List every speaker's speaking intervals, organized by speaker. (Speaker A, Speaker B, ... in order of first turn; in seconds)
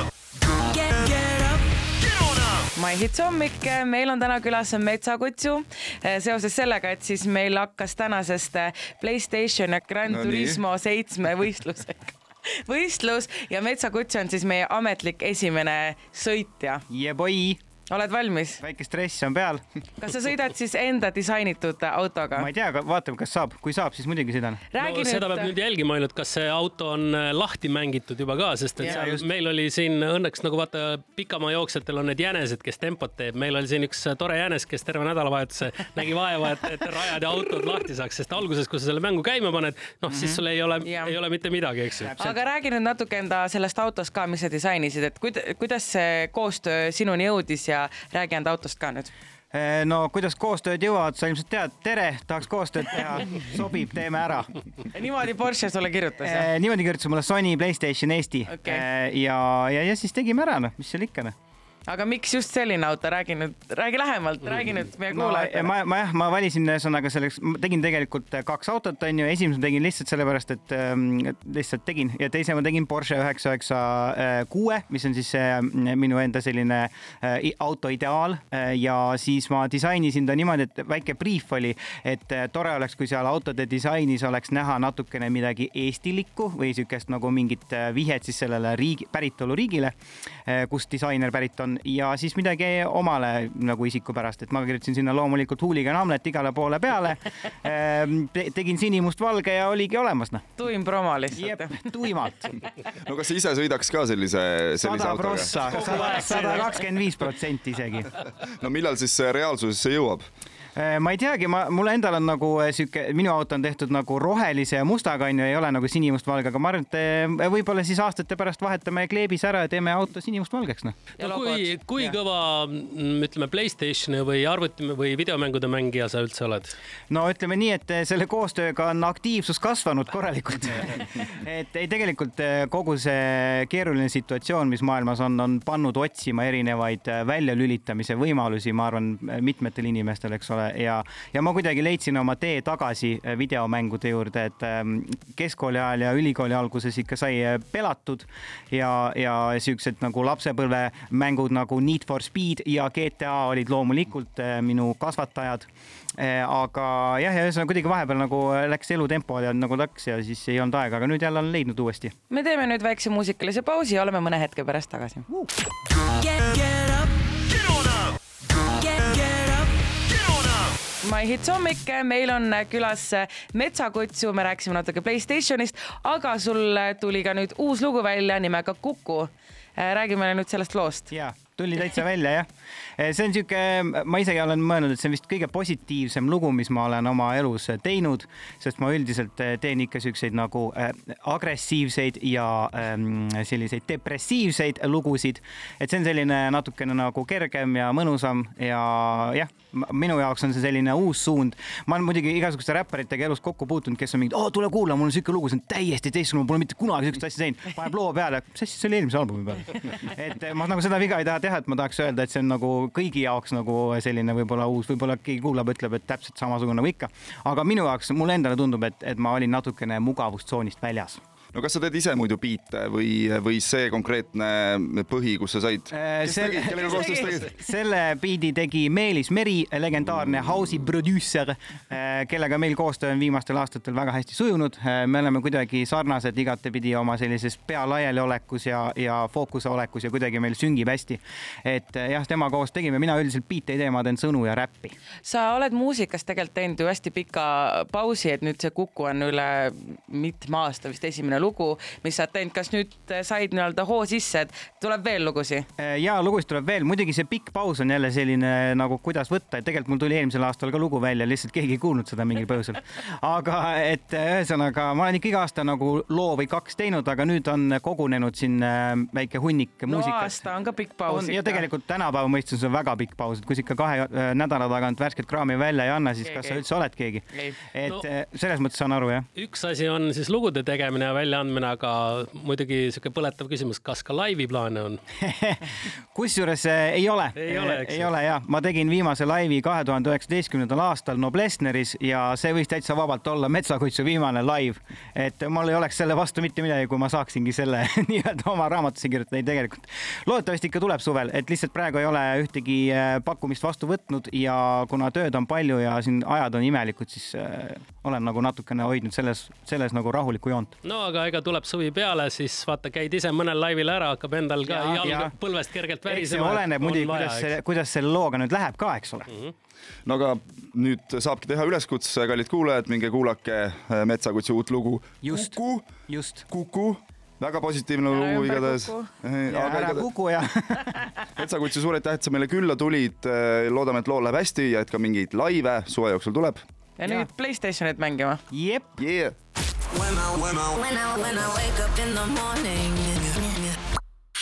Speaker A: 0.6-1.6, 2.7-16.8, 17.9-18.6, 20.0-22.5, 24.7-25.5, 40.8-41.1, 42.2-49.1, 54.9-56.5, 58.5-58.8, 61.9-65.7, 100.6-101.9, 105.8-106.7, 121.2-121.7, 162.3-165.3, 166.0-168.0, 168.5-169.7, 171.0-181.1, 245.2-255.7, 269.9-271.6, 276.2-276.6, 277.3-277.6, 328.1-329.1, 337.0-338.4
Speaker B: 10.1-10.6, 103.0-106.0, 108.4-110.2, 221.5-227.5, 320.1-325.9, 326.5-330.1, 331.4-336.6, 339.0-339.3
Speaker C: 16.9-17.6, 18.6-19.6, 22.3-24.6, 28.8-29.2, 40.1-40.4, 42.0-42.4, 49.5-54.5, 56.2-61.3, 65.1-89.9, 90.5-100.4, 101.3-102.5, 104.8-108.1, 110.7-121.0, 127.1-162.1, 181.1-182.5, 183.0-221.2, 225.9-244.9, 255.8-270.5, 271.1-279.3, 285.2-310.7, 314.6-315.3, 316.1-319.3, 325.2-326.5, 329.5-331.2, 338.5-338.9
Speaker D: 24.8-42.1, 106.0-106.5, 121.2-126.7, 279.4-285.0, 287.4-288.1, 310.8-317.5
Speaker E: 339.9-343.8